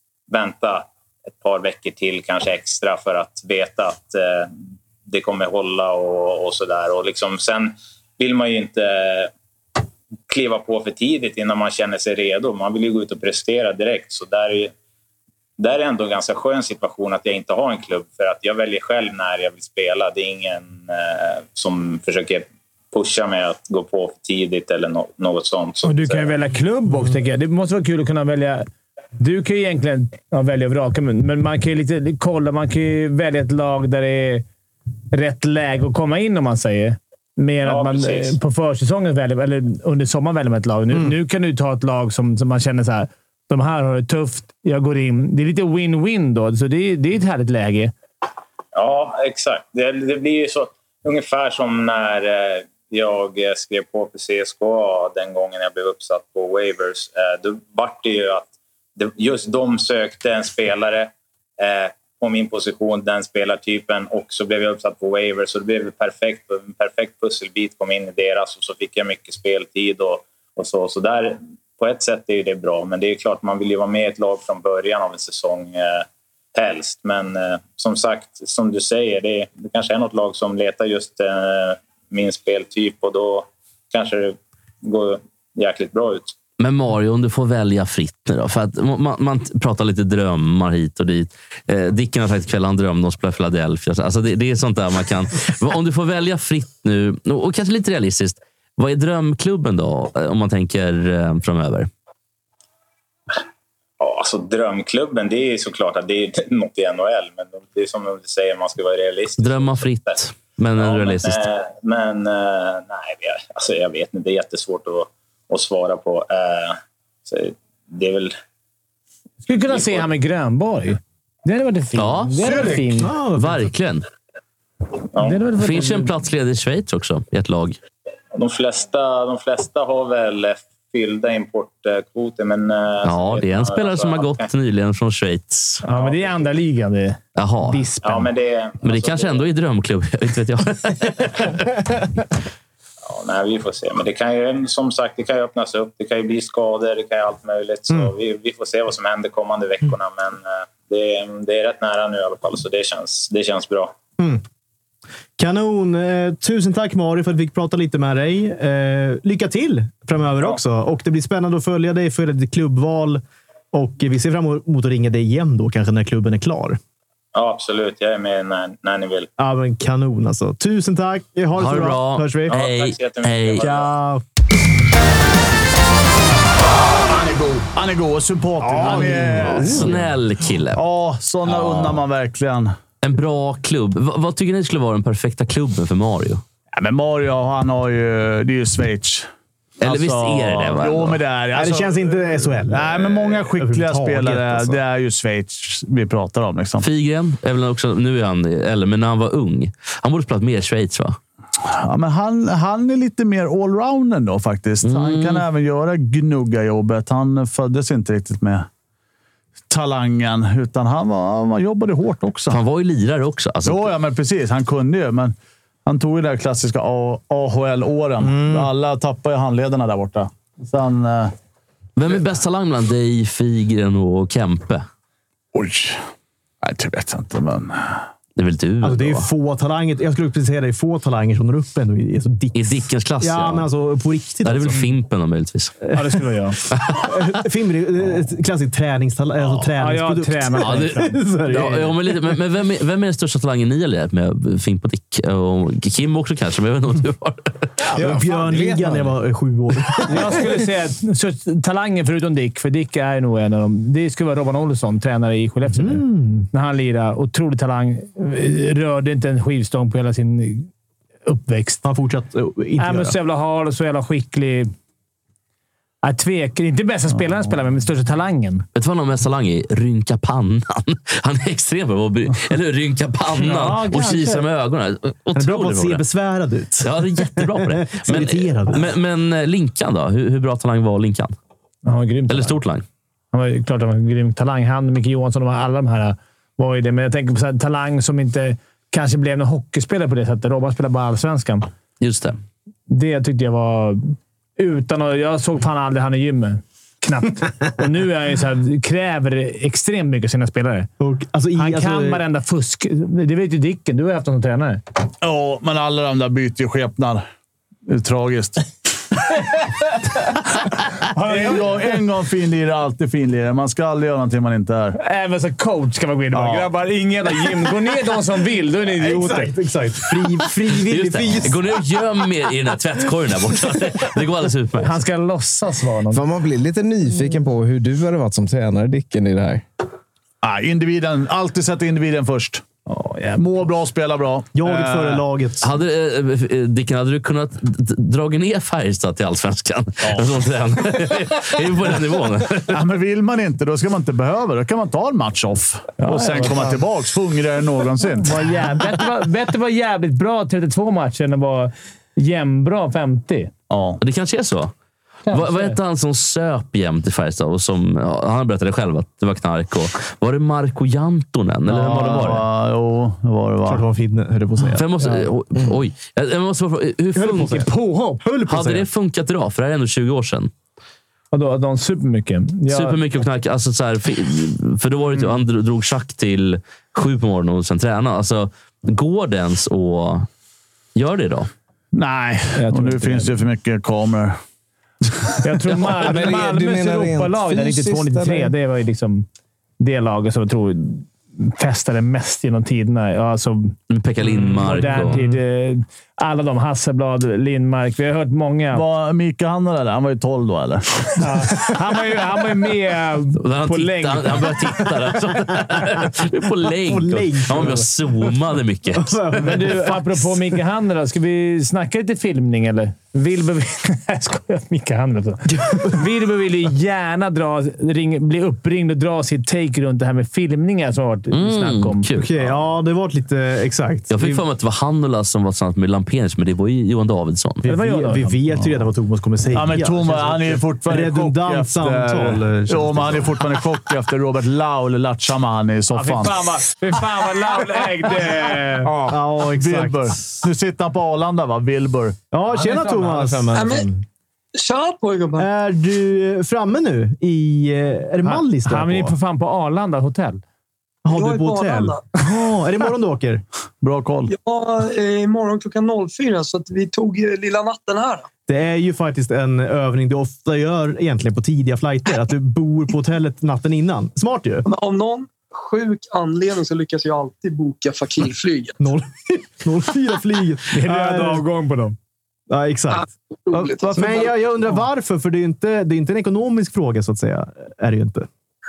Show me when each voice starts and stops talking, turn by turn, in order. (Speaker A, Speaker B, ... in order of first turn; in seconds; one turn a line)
Speaker A: 0.3-9.3
Speaker A: 10.3-14.7
Speaker A: 15.6-26.3
Speaker B: 25.8-28.7
Speaker B: 29.2-34.5
Speaker B: 35.1-47.9
Speaker A: 37.6-38.4
Speaker A: 48.8-86.3
Speaker C: 86.6-101.9
Speaker A: 104.0-110.2
Speaker C: 109.4-111.5
Speaker A: 110.8-118.3
Speaker B: 119.5-123.1
Speaker A: 119.7-120.1
Speaker C: 122.0-122.4
Speaker D: 122.5-123.7
Speaker C: 123.4-124.0
Speaker A: 125.1-125.4
Speaker B: 125.2-126.1
Speaker C: 125.6-127.8
Speaker A: 128.3-134.5
Speaker C: 133.0-135.8
Speaker B: 135.8-138.3
Speaker A: 135.9-136.4
Speaker C: 137.4-137.9
Speaker A: 138.0-139.5
Speaker C: 138.8-141.7
Speaker A: 143.1-153.9
Speaker D: 155.4-163.2
Speaker D: 163.7-166.8
Speaker A: 167.3-169.3
Speaker D: 169.4-172.6
Speaker C: 171.6-173.7
Speaker A: 172.5-173.9
Speaker D: 173.6-174.2
Speaker E: 177.0-180.1
Speaker D: 178.6-179.8
Speaker B: 178.7-179.8
Speaker C: 179.6-180.8
Speaker E: 180.7-182.7
Speaker C: 181.5-182.0
Speaker C: 183.0-186.4
Speaker E: 186.8-189.3
Speaker C: 189.8-191.2
Speaker E: 189.8-196.9
Speaker D: 191.5-194.8
Speaker C: 196.8-201.2
Speaker E: 201.7-208.7
Speaker C: 204.8-205.4
Speaker E: 209.7-212.6
Speaker C: 212.5-213.9
Speaker E: 213.7-215.3
Speaker E: 215.9-221.3
Speaker D: 218.2-218.7
Speaker C: 222.0-224.9
Speaker E: 225.5-226.0
Speaker E: 226.6-228.0
Speaker C: 228.4-229.3
Speaker D: 228.8-234.9
Speaker C: 232.5-233.7
Speaker C: 234.4-235.8
Speaker B: 235.9-236.6
Speaker C: 236.7-237.1
Speaker D: 236.9-242.2
Speaker B: 239.8-241.1
Speaker C: 240.6-247.5
Speaker F: 247.9-249.2
Speaker D: 247.9-250.4
Speaker B: 250.1-260.7
Speaker D: 255.7-256.5
Speaker B: 261.3-261.8
Speaker D: 261.8-263.2
Speaker B: 262.8-264.7
Speaker B: 266.0-268.7
Speaker C: 268.7-276.0
Speaker B: 273.4-274.4
Speaker D: 275.4-278.9
Speaker C: 276.8-281.3
Speaker B: 281.9-282.6
Speaker C: 282.3-282.9
Speaker B: 283.3-291.7
Speaker C: 292.0-292.4
Speaker B: 292.9-300.9
Speaker D: 301.0-302.2
Speaker B: 301.6-304.8
Speaker E: 305.2-307.2
Speaker E: 307.9-308.6
Speaker B: 311.1-311.7
Speaker E: 311.2-315.0
Speaker B: 315.0-319.5
Speaker D: 316.3-316.7
Speaker D: 319.0-321.7
Speaker C: 320.7-324.9
Speaker B: 324.8-326.2
Speaker F: 326.1-329.6
Speaker E: 330.4-332.6
Speaker B: 332.9-333.4
Speaker E: 333.4-335.2
Speaker D: 334.6-335.6
Speaker C: 335.6-342.8
Speaker E: 342.7-348.4
Speaker B: 346.0-346.8
Speaker B: 348.2-353.5
Speaker E: 353.7-354.0
Speaker C: 354.0-354.7
Speaker B: 355.3-355.8
Speaker C: 355.3-362.4
Speaker E: 361.7-363.9
Speaker D: 361.7-362.4
Speaker D: 363.6-364.9
Speaker C: 364.7-367.7
Speaker D: 367.1-368.9
Speaker B: 367.6-368.2
Speaker C: 368.5-370.5
Speaker B: 371.3-373.0
Speaker C: 372.7-380.3
Speaker C: 380.9-381.5
Speaker E: 381.9-384.4
Speaker B: 382.6-383.3
Speaker B: 385.4-389.3
Speaker F: 385.9-388.5
Speaker B: 389.8-393.8
Speaker C: 393.9-395.2
Speaker B: 394.4-398.9
Speaker E: 398.7-401.5
Speaker B: 401.2-404.9
Speaker C: 403.4-409.2
Speaker D: 406.8-408.3
Speaker D: 408.9-410.4
Speaker B: 409.4-422.1
Speaker C: 421.3-422.3
Speaker D: 422.2-424.4
Speaker C: 424.1-427.6
Speaker D: 427.6-433.4
Speaker B: 427.7-428.4
Speaker E: 429.5-436.4
Speaker B: 435.9-438.9
Speaker D: 439.1-440.1
Speaker E: 439.5-442.2
Speaker D: 442.3-443.5
Speaker F: 442.5-444.0
Speaker G: 443.5-443.9
Speaker G: 444.6-445.5
Speaker D: 445.4-449.1
Speaker B: 448.2-450.4
Speaker D: 451.1-453.4
Speaker G: 451.1-452.1
Speaker E: 453.8-454.3
Speaker G: 454.3-458.3
Speaker D: 458.5-464.6
Speaker G: 464.6-468.8
Speaker D: 468.8-471.4
Speaker B: 470.7-472.0
Speaker D: 472.5-478.3
Speaker G: 472.9-474.4